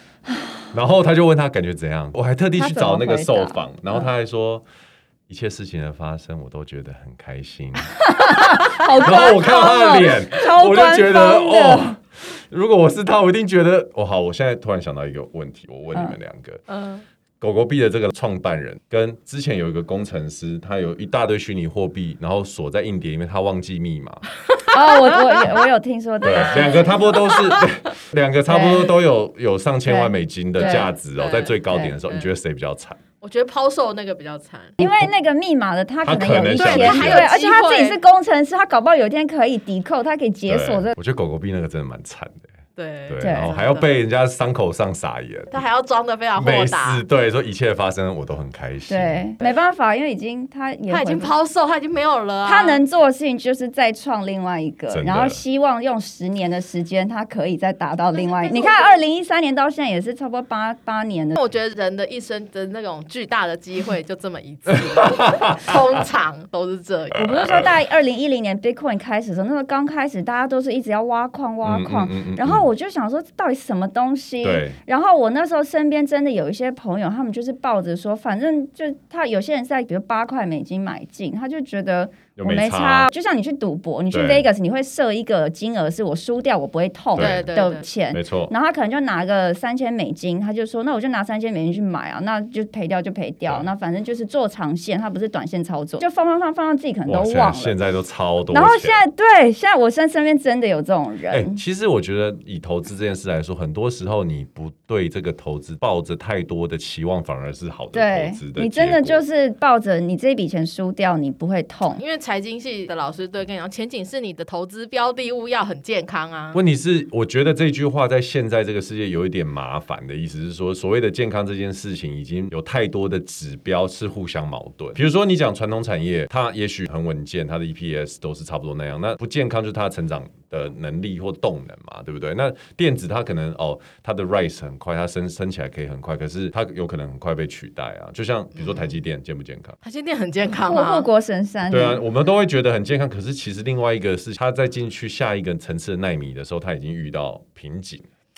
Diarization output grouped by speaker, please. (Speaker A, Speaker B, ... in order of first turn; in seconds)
Speaker A: 0.7-4.7, 5.3-16.6, 17.4-24.2, 26.2-33.0, 34.8-35.1, 36.0-37.3, 40.5-42.5, 43.1-45.6, 46.4-49.2, 54.9-55.4, 64.7-65.7, 67.2-67.7, 71.6-72.7, 74.4-74.8, 82.4-83.1, 84.1-84.5, 87.2-87.5, 88.1-88.5, 97.1-99.0, 101.3-109.2, 116.5-139.8, 141.7-148.1
Speaker B: 2.6-4.1, 8.1-11.9, 24.7-27.4, 28.5-29.0, 29.9-30.9, 31.7-32.0, 34.8-41.0, 43.2-43.5, 48.9-51.3, 52.5-61.4, 67.2-97.8, 98.5-101.6, 107.9-112.0, 140.7-142.0
Speaker C: 16.7-17.0, 24.5-25.7, 26.3-27.9, 30.6-32.3, 33.2-34.8, 36.6-38.0, 42.8-44.0, 45.5-47.0, 50.9-52.8, 58.1-59.0, 61.4-67.5, 87.2-87.8, 112.0-116.6, 138.6-139.0, 139.8-141.1